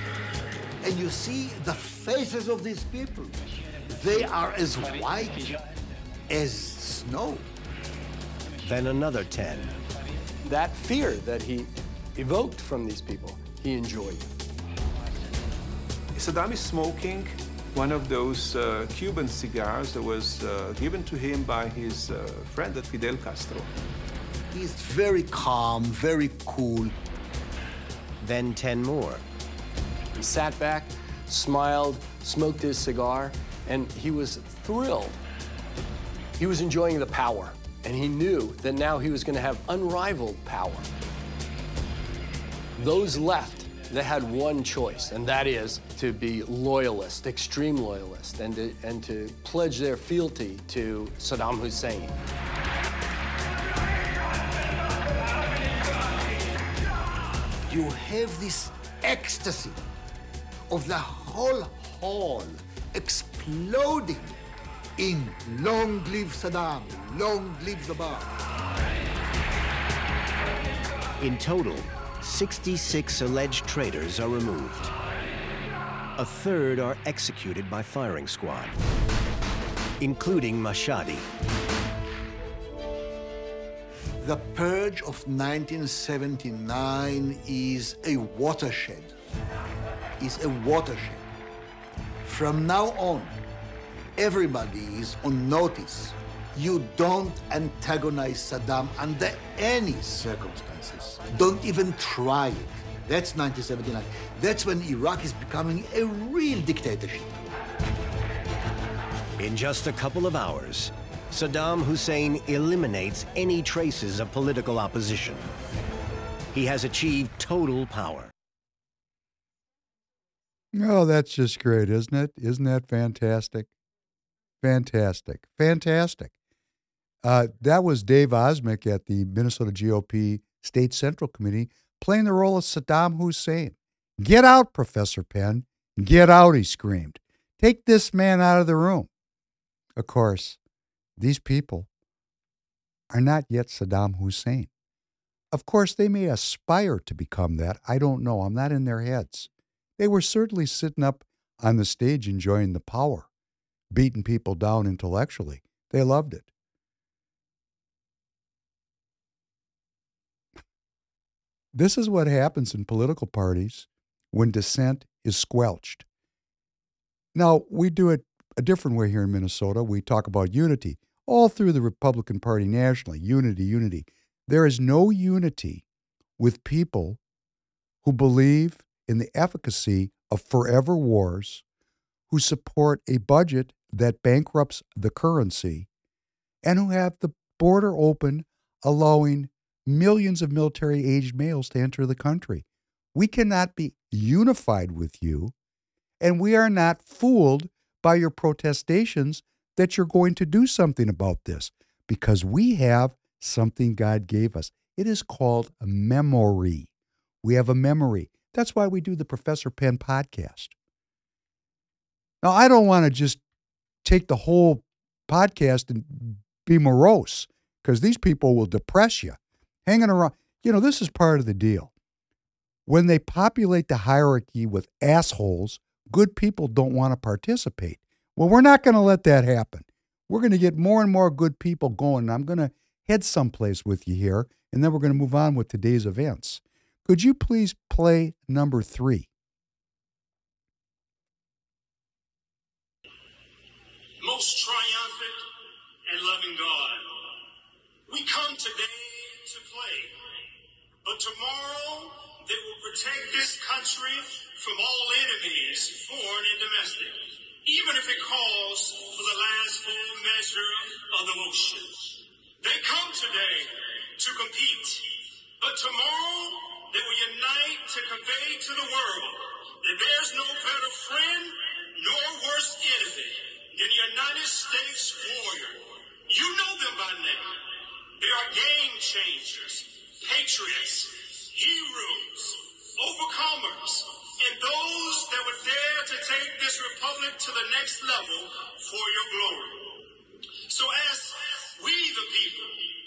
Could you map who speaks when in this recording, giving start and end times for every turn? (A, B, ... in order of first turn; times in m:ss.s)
0:00.8-0:05.6 A
0:06.3-0:07.4 A
0:08.6-0:09.7 B
0:10.4-0:14.3 C
0:16.1-0:23.7 D
0:24.5-0:26.9 A
0:28.2-0:29.2 B
0:30.2-0:35.2 C
0:36.4-0:40.9 C
0:42.8-0:52.2 C
0:57.7-0:59.8 A
1:00.7-1:04.4 A
1:05.0-1:08.4 A
1:11.2-1:14.9 B
1:16.2-1:18.8 B
1:20.0-1:21.3 B
1:24.2-1:29.1 A
1:30.2-1:31.2 A
1:32.2-1:33.4 A
1:34.2-1:47.3 A
1:49.4-1:55.5 B
1:56.5-1:58.3 B
2:00.7-2:03.7 E
2:04.6-2:06.3 E
2:07.2-2:19.1 E
2:20.0-2:20.6 E
2:21.2-2:21.9 E
2:23.1-2:24.7 E
2:25.5-2:33.3 E
2:33.9-2:36.5 E
2:41.7-2:46.0 E
2:47.4-2:55.8 E
2:56.4-2:57.2 E
2:58.0-3:01.6 E
3:02.3-3:05.9 E
3:06.6-3:15.5 E
3:16.2-3:26.9 E
3:27.4-3:30.7 E
3:32.4-3:33.4 E
3:34.0-3:41.9 E
3:42.9-3:59.3 E
4:04.2-4:05.4 F
4:06.0-4:07.2 F
4:08.1-4:10.1 F
4:11.0-4:22.1 F
4:22.6-4:25.1 F
4:25.6-4:37.6 F
4:38.2-4:50.0 F
4:50.7-4:52.9 F